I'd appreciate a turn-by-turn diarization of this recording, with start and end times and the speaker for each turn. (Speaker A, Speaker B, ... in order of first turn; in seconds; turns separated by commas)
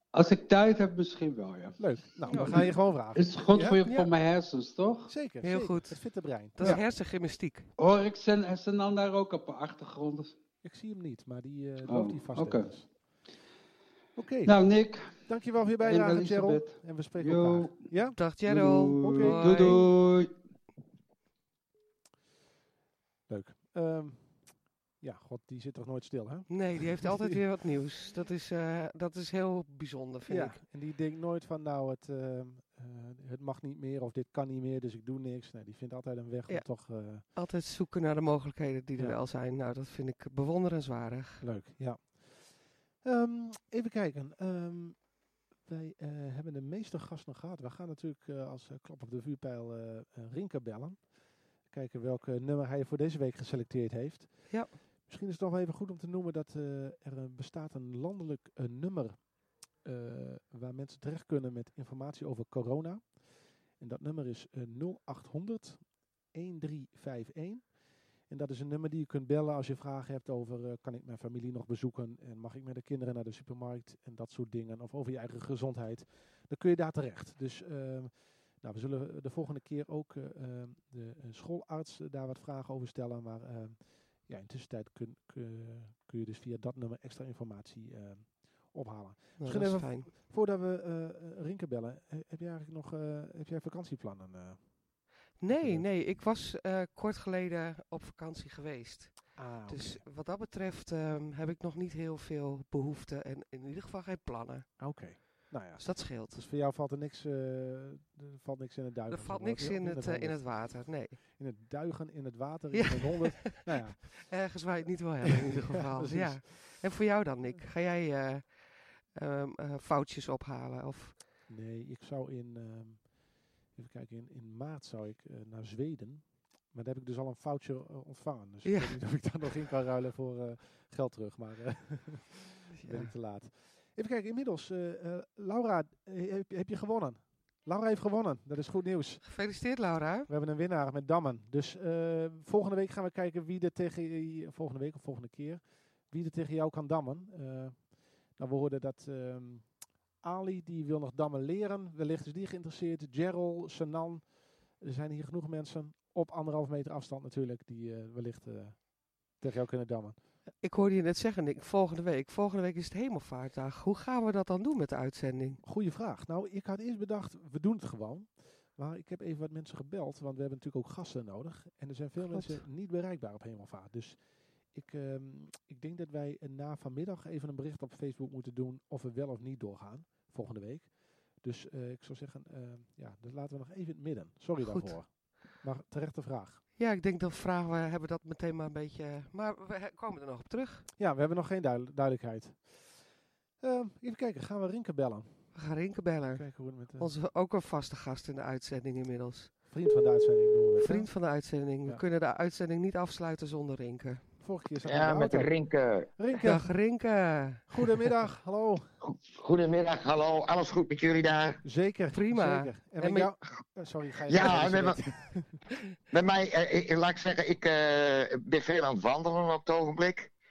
Speaker A: 0.1-5.1, Speaker B: 1.8-3.9, Speaker C: 2.3-2.6, Speaker B: 5.1-6.8, Speaker C: 5.4-7.7, Speaker A: 7.8-10.4, Speaker B: 10.6-12.9, Speaker A: 11.9-12.7, Speaker B: 14.2-18.3, Speaker A: 14.4-15.2, Speaker A: 15.8-17.9, Speaker C: 18.2-19.9, Speaker A: 18.4-20.3, Speaker B: 19.0-19.8, Speaker B: 23.3-27.4, Speaker C: 26.5-30.6, Speaker B: 30.3-37.2, Speaker C: 36.5-41.5, Speaker B: 41.4-96.0, Speaker C: 54.5-54.8, Speaker C: 89.4-90.1, Speaker C: 95.4-106.4, Speaker B: 99.4-100.0, Speaker B: 104.8-114.6, Speaker C: 109.1-111.2, Speaker C: 112.7-121.2, Speaker B: 115.3-116.8, Speaker B: 121.5-160.2, Speaker C: 128.7-129.0, Speaker C: 132.8-133.1, Speaker C: 139.2-140.3, Speaker C: 160.6-165.6, Speaker B: 165.6-186.6, Speaker C: 172.3-172.6, Speaker C: 184.6-185.2, Speaker C: 186.8-190.9, Speaker B: 191.0-195.6, Speaker C: 195.6-199.5, Speaker B: 196.3-197.1, Speaker B: 199.7-201.2, Speaker C: 200.8-204.3, Speaker B: 204.4-205.5, Speaker D: 204.8-206.1, Speaker B: 206.2-206.8, Speaker C: 206.4-207.8, Speaker B: 207.7-208.9, Speaker D: 209.0-211.6, Speaker B: 211.6-215.6, Speaker C: 212.1-213.3, Speaker D: 214.3-215.0, Speaker C: 214.4-214.7, Speaker D: 216.1-220.3